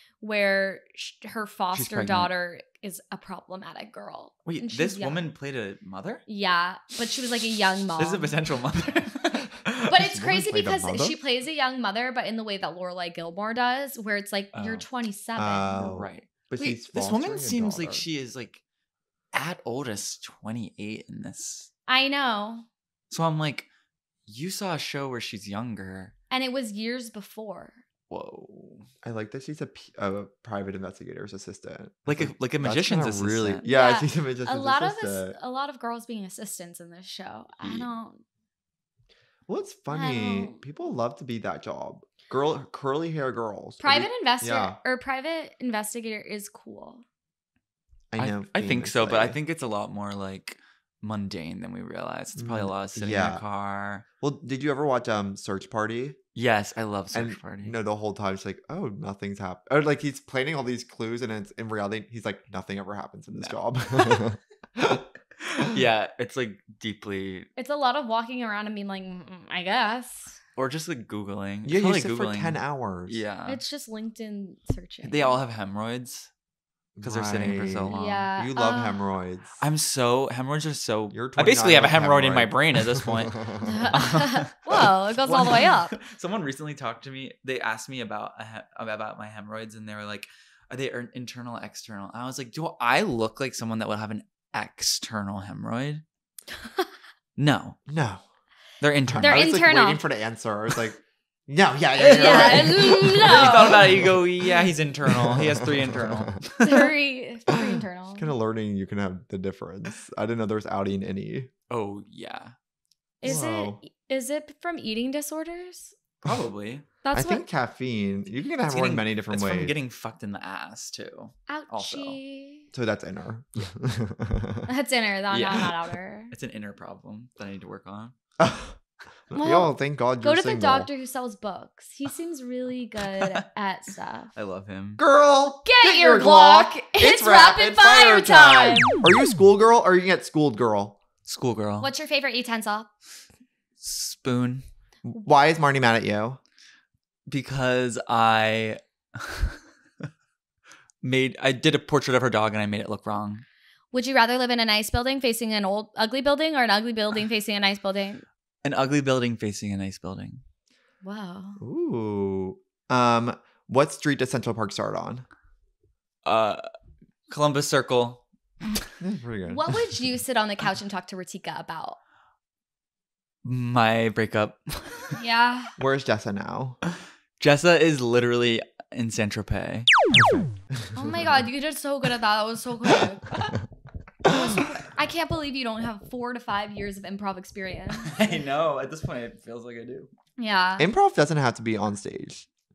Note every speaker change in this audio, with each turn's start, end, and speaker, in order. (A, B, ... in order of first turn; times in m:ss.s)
0:00.2-0:05.3 A
0:01.7-0:02.3 B
0:04.4-0:06.2 B
0:06.3-0:08.3 A
0:08.0-0:09.9 B
0:09.9-0:15.9 A
0:09.9-0:11.2 C
0:14.5-0:14.8 B
0:15.4-0:18.0 C
0:15.8-0:18.6 B
0:19.3-0:21.7 B
0:21.9-0:22.7 A
0:23.1-0:23.7 B
0:24.2-0:26.1 B
0:26.3-0:27.8 A
0:28.1-0:28.9 B
0:29.0-0:35.4 C
0:32.1-0:33.6 B
0:33.6-0:38.2 A
0:39.5-0:44.8 C
0:39.9-0:40.6 A
0:43.8-0:47.0 A
0:48.1-0:49.4 C
0:48.2-0:54.0 B
0:52.4-0:53.4 C
0:54.2-0:56.2 C
0:56.3-0:57.8 B
0:57.1-1:05.0 C
1:03.3-1:04.2 B
1:05.4-1:07.5 B
1:07.6-1:10.4 A
1:10.6-1:13.6 B
1:11.6-1:13.2 C
1:13.4-1:15.4 A
1:15.0-1:16.3 B
1:17.0-1:19.6 C
1:17.0-1:18.2 B
1:17.9-1:19.0 A
1:19.6-1:36.0 B
1:21.1-1:23.9 C
1:23.6-1:26.0 A
1:37.4-1:37.8 B
1:37.9-1:38.2 C
1:38.8-1:39.5 B
1:39.1-1:46.4 C
1:39.2-1:40.0 A
1:42.0-1:46.9 B
1:42.0-1:43.9 A
1:46.6-1:48.3 A
1:47.5-1:51.5 C
1:51.7-1:52.5 B
1:53.2-1:55.9 A
1:53.2-1:53.8 C
1:56.2-1:56.8 B
1:57.0-1:57.4 A
1:57.1-1:59.7 C
1:58.7-2:02.2 B
2:01.5-2:02.7 A
2:02.7-2:04.7 C
2:04.7-2:06.3 A
2:05.3-2:05.7 B
2:06.3-2:08.1 B
2:08.4-2:08.8 C
2:09.3-2:10.9 C
2:09.4-2:14.3 A
2:14.3-2:15.0 B
2:15.0-2:21.0 C
2:15.6-2:19.0 A
2:21.2-2:21.9 B
2:21.8-2:22.9 A
2:23.8-2:24.6 B
2:25.0-2:26.4 C
2:27.3-2:29.6 B
2:31.0-2:33.4 B
2:33.9-2:38.2 A
2:38.6-2:40.4 B
2:41.0-2:41.6 A
2:41.6-2:45.2 C
2:46.2-2:46.6 B
2:47.3-2:48.8 B
2:49.0-2:49.7 C
2:49.5-2:52.0 A
2:53.4-2:55.2 B
2:55.2-2:55.7 A
2:55.8-2:56.8 C
2:57.4-2:59.9 B
3:00.9-3:03.2 A
3:03.3-3:03.5 B
3:04.2-3:08.4 A
3:08.0-3:10.1 B
3:10.4-3:10.9 A
3:10.8-3:12.4 C